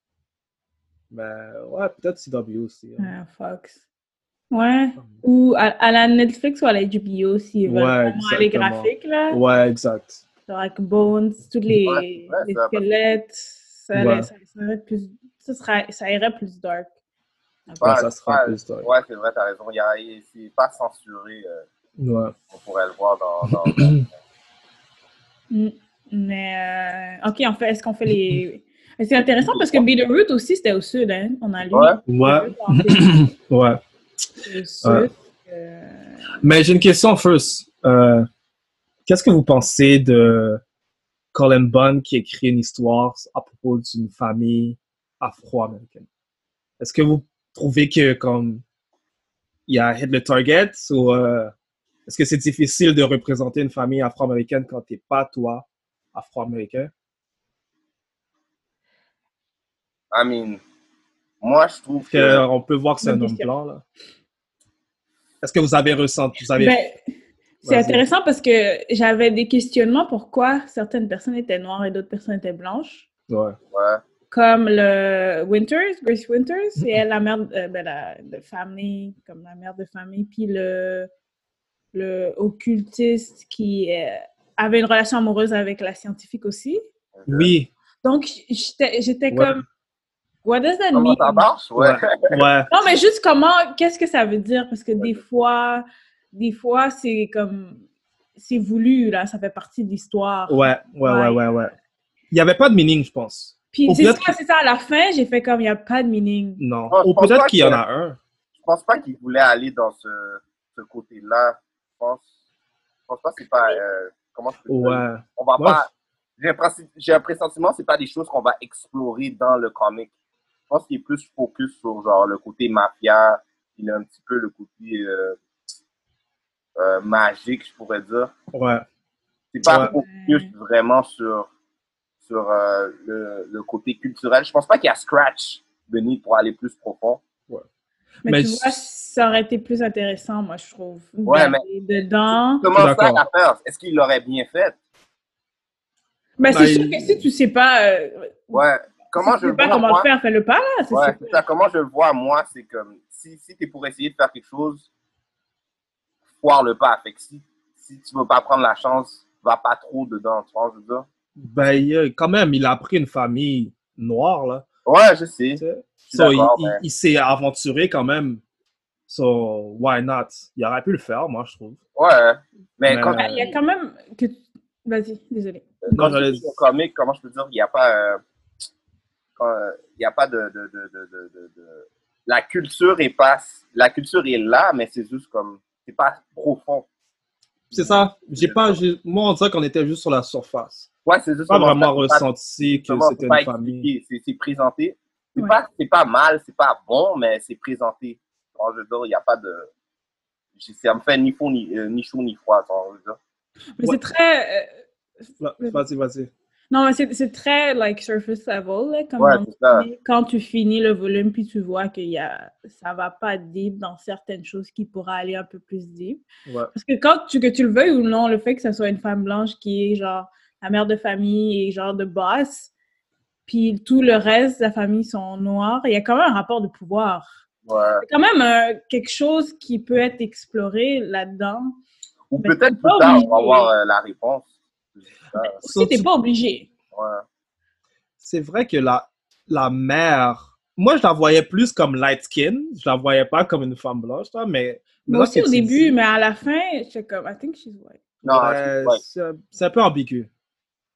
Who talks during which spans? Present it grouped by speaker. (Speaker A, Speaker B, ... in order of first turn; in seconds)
Speaker A: 1.1-3.1, 7.6-10.2, 13.9-14.3, 17.8-18.9, 22.0-22.4, 23.5-24.0, 32.1-33.8, 34.8-35.1, 36.4-38.3, 39.0-40.6, 41.3-46.1, 46.8-48.6, 49.7-51.5, 52.0-56.9, 62.0-63.8, 65.4-66.8, 67.6-68.0, 73.3-73.6, 87.3-87.7, 89.3-89.6, 91.8-92.7, 100.5-101.7, 102.3-104.3, 106.6-108.2, 114.7-115.9, 128.5-128.8, 129.6-129.9, 138.2-138.7, 142.7-143.2, 146.5-147.2, 161.4-164.7, 165.6-168.4, 169.1-171.8, 172.8-173.5, 175.9-176.4, 187.7-190.9, 191.5-193.9, 205.4-206.3, 216.4-216.7, 235.6-236.1, 238.2-245.9, 248.2-250.3
Speaker B: 3.0-3.8, 4.5-9.4, 10.5-16.9, 25.5-33.3, 34.4-36.3, 63.0-63.5, 66.5-67.0, 67.6-73.1, 74.3-81.1, 81.9-86.8, 88.0-89.6, 90.4-91.5, 92.7-97.8, 98.3-101.4, 103.7-106.6, 129.7-130.5, 138.2-142.6, 146.4-148.6, 149.2-151.4, 173.2-175.8, 203.8-204.8, 206.7-222.7, 223.5-227.4, 228.0-231.8, 232.4-233.7, 235.4-236.7, 245.1-248.0
Speaker C: 11.8-12.8, 17.8-21.6, 22.5-24.1, 29.4-29.8, 31.7-32.0, 60.1-60.6, 61.4-62.4, 73.7-74.0, 87.2-87.5, 90.9-92.4, 106.9-107.8, 108.6-112.2, 113.1-120.1, 120.7-125.4, 126.8-128.3, 129.5-131.5, 132.2-137.2, 141.2-141.6, 142.6-144.8, 148.5-150.1, 150.9-154.9, 156.4-161.0, 164.8-166.8, 171.9-173.5, 175.8-178.2, 179.3-186.8, 187.7-188.8, 191.0-192.2, 192.8-199.7, 200.6-203.2, 209.2-209.9, 227.7-228.0, 232.3-235.6, 236.9-237.2, 248.2-249.0